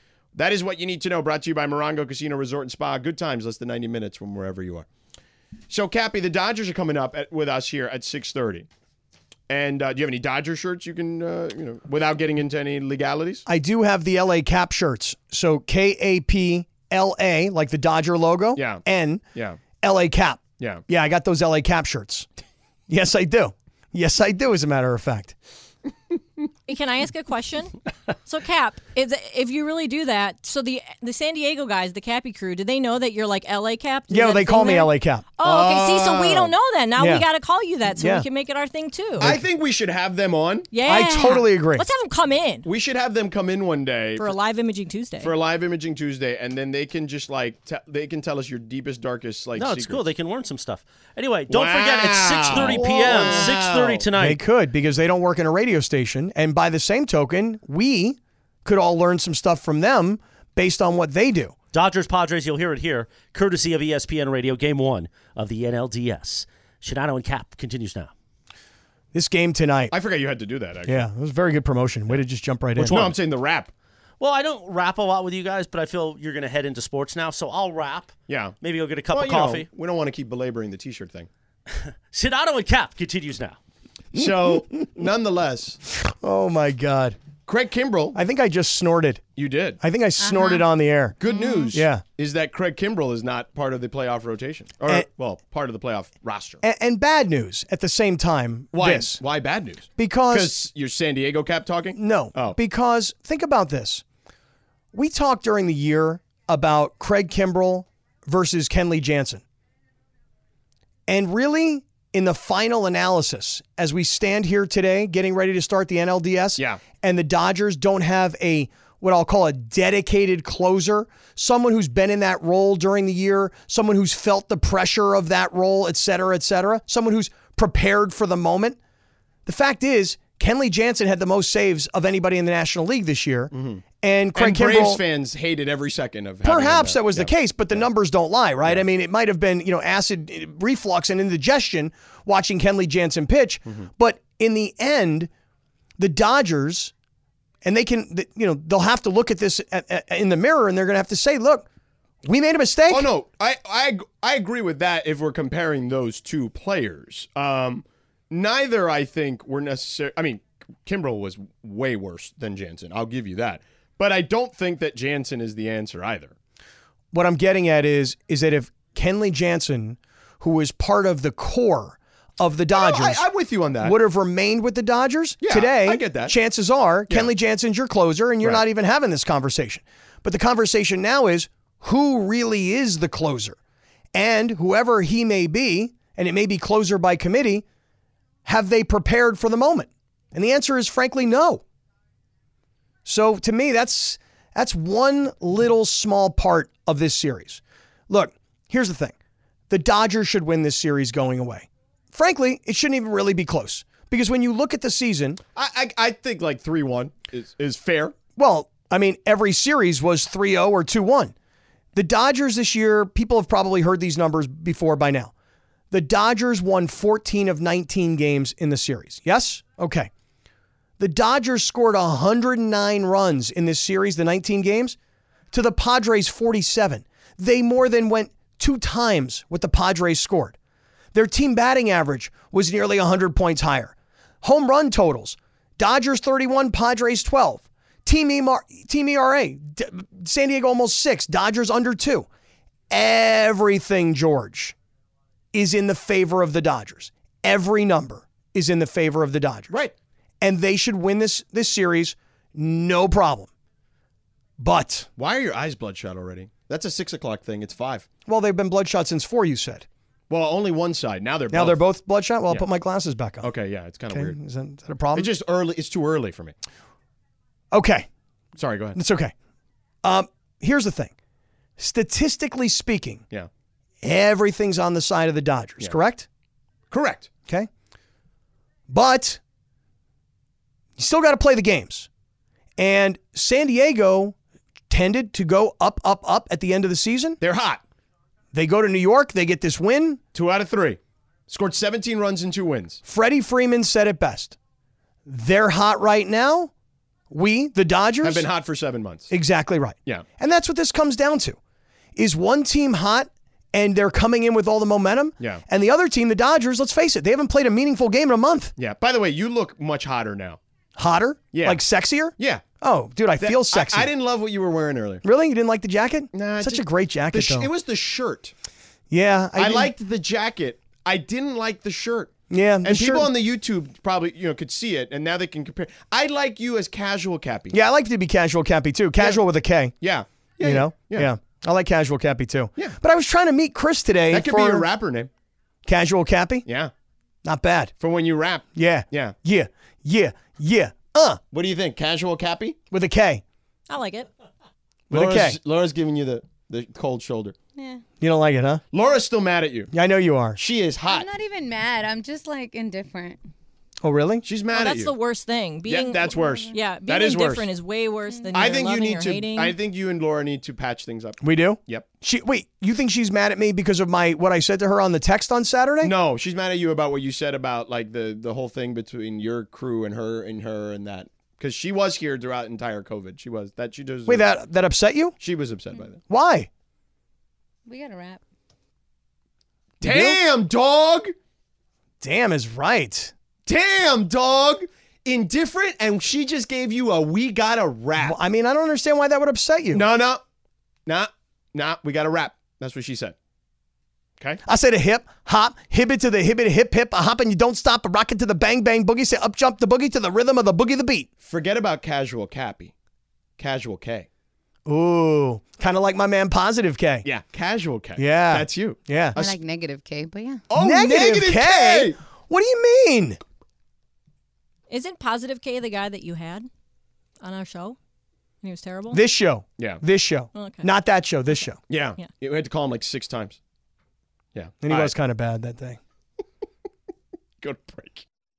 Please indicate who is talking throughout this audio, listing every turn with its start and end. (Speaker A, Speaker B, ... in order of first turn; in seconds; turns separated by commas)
Speaker A: 0.3-4.9, Speaker A: 5.7-8.7, Speaker A: 9.5-13.4, Speaker B: 13.5-19.2, Speaker A: 18.6-18.8, Speaker A: 19.4-19.6, Speaker B: 19.8-22.3, Speaker B: 22.9-25.4, Speaker C: 26.7-39.3, Speaker B: 34.1-35.2, Speaker A: 35.4-36.5, Speaker B: 37.0-37.3, Speaker B: 38.0-38.3, Speaker A: 39.2-40.7, Speaker C: 40.7-42.7, Speaker B: 40.9-41.9, Speaker A: 42.6-44.4, Speaker C: 44.2-45.3, Speaker A: 45.2-50.0, Speaker D: 49.6-54.4, Speaker A: 51.5-54.0, Speaker B: 54.2-61.5, Speaker D: 61.7-68.1, Speaker B: 69.1-70.0, Speaker A: 69.9-71.0, Speaker B: 70.9-73.1, Speaker D: 72.8-73.2, Speaker A: 72.9-73.7, Speaker D: 74.2-79.7, Speaker A: 78.3-78.6, Speaker A: 79.1-81.3, Speaker D: 81.7-83.6, Speaker A: 84.1-85.8, Speaker B: 86.1-87.2, Speaker A: 87.5-88.2, Speaker B: 88.2-89.2, Speaker A: 89.4-89.8, Speaker B: 89.8-91.2, Speaker E: 90.2-90.7, Speaker A: 91.2-96.6, Speaker E: 91.3-91.7, Speaker B: 91.7-92.0, Speaker B: 96.6-99.2, Speaker A: 98.7-102.6, Speaker B: 100.0-100.5, Speaker B: 102.0-104.0, Speaker B: 104.9-109.4, Speaker B: 111.1-128.8, Speaker B: 129.5-135.0, Speaker A: 133.5-137.8, Speaker B: 136.4-145.3, Speaker B: 146.0-146.9, Speaker B: 147.6-151.7, Speaker B: 152.2-153.1, Speaker A: 152.9-166.3, Speaker B: 167.1-173.3, Speaker A: 172.7-174.0, Speaker B: 173.8-183.6, Speaker A: 175.4-176.3, Speaker B: 184.1-187.6, Speaker B: 188.4-191.6, Speaker B: 193.1-199.2, Speaker B: 199.7-205.4, Speaker A: 205.6-208.2, Speaker B: 208.4-211.3, Speaker B: 211.9-215.3, Speaker B: 215.9-220.1, Speaker B: 221.0-225.0, Speaker B: 225.5-230.6, Speaker B: 231.1-242.3, Speaker B: 242.9-244.8, Speaker B: 245.5-249.7, Speaker B: 250.4-253.5, Speaker B: 254.6-255.1, Speaker A: 255.2-258.1, Speaker B: 258.3-259.9, Speaker A: 260.3-261.8, Speaker B: 261.5-263.5, Speaker A: 263.4-264.4, Speaker B: 264.1-265.3, Speaker A: 265.1-266.6, Speaker B: 267.7-268.1, Speaker A: 268.6-269.0, Speaker B: 269.0-269.3, Speaker B: 270.0-271.1, Speaker B: 271.8-273.2, Speaker B: 274.0-276.3, Speaker A: 276.9-277.3, Speaker B: 278.9-279.4, Speaker B: 281.0-282.1, Speaker B: 282.8-284.4, Speaker B: 284.9-287.4, Speaker A: 287.4-287.8, Speaker B: 288.5-290.2, Speaker A: 290.3-293.0, Speaker B: 293.1-294.6, Speaker B: 295.3-296.7, Speaker B: 297.3-298.5, Speaker A: 298.2-299.3, Speaker B: 299.3-301.6, Speaker B: 302.2-308.7, Speaker A: 308.8-310.6, Speaker B: 311.0-314.1, Speaker A: 311.5-311.8, Speaker A: 312.4-312.6, Speaker A: 313.4-315.2, Speaker B: 315.2-317.7, Speaker A: 316.3-318.5, Speaker B: 319.1-319.9, Speaker A: 319.6-327.8, Speaker B: 322.5-323.3, Speaker B: 327.7-329.9, Speaker A: 330.0-331.3, Speaker B: 330.6-334.9, Speaker A: 334.3-335.3, Speaker B: 335.9-336.6, Speaker A: 336.7-336.9, Speaker B: 337.4-337.9, Speaker A: 338.0-339.4, Speaker B: 338.8-341.4, Speaker A: 341.5-342.8, Speaker B: 342.9-343.4, Speaker C: 343.9-344.3, Speaker B: 345.1-345.6, Speaker A: 345.1-347.6, Speaker E: 347.8-348.0, Speaker B: 348.2-348.8, Speaker A: 348.9-349.9, Speaker B: 349.9-350.6, Speaker A: 350.6-351.3, Speaker E: 351.1-353.4, Speaker B: 354.0-354.5, Speaker A: 354.4-355.1, Speaker C: 354.7-359.8, Speaker A: 355.9-357.7, Speaker E: 356.3-356.8, Speaker E: 358.3-358.6, Speaker A: 358.5-362.1, Speaker B: 361.4-366.1, Speaker A: 366.0-374.5, Speaker B: 374.3-375.4, Speaker A: 375.4-376.2, Speaker B: 376.3-376.7, Speaker E: 377.9-378.4, Speaker A: 380.0-381.3, Speaker B: 380.0-380.4, Speaker B: 382.2-383.3, Speaker A: 383.7-388.4, Speaker B: 388.2-390.1, Speaker A: 389.9-390.4, Speaker A: 391.1-393.4, Speaker B: 394.6-401.3, Speaker A: 401.4-402.9, Speaker A: 403.6-404.3, Speaker B: 404.9-407.2, Speaker A: 407.2-409.6, Speaker B: 408.2-409.4, Speaker E: 409.4-410.6, Speaker A: 410.7-412.2, Speaker B: 410.8-413.4, Speaker C: 414.9-416.7, Speaker C: 417.4-418.0, Speaker C: 418.6-419.2, Speaker B: 419.1-421.8, Speaker C: 420.6-420.9, Speaker A: 421.9-423.6, Speaker A: 424.6-425.1, Speaker B: 424.8-426.0, Speaker A: 427.6-428.2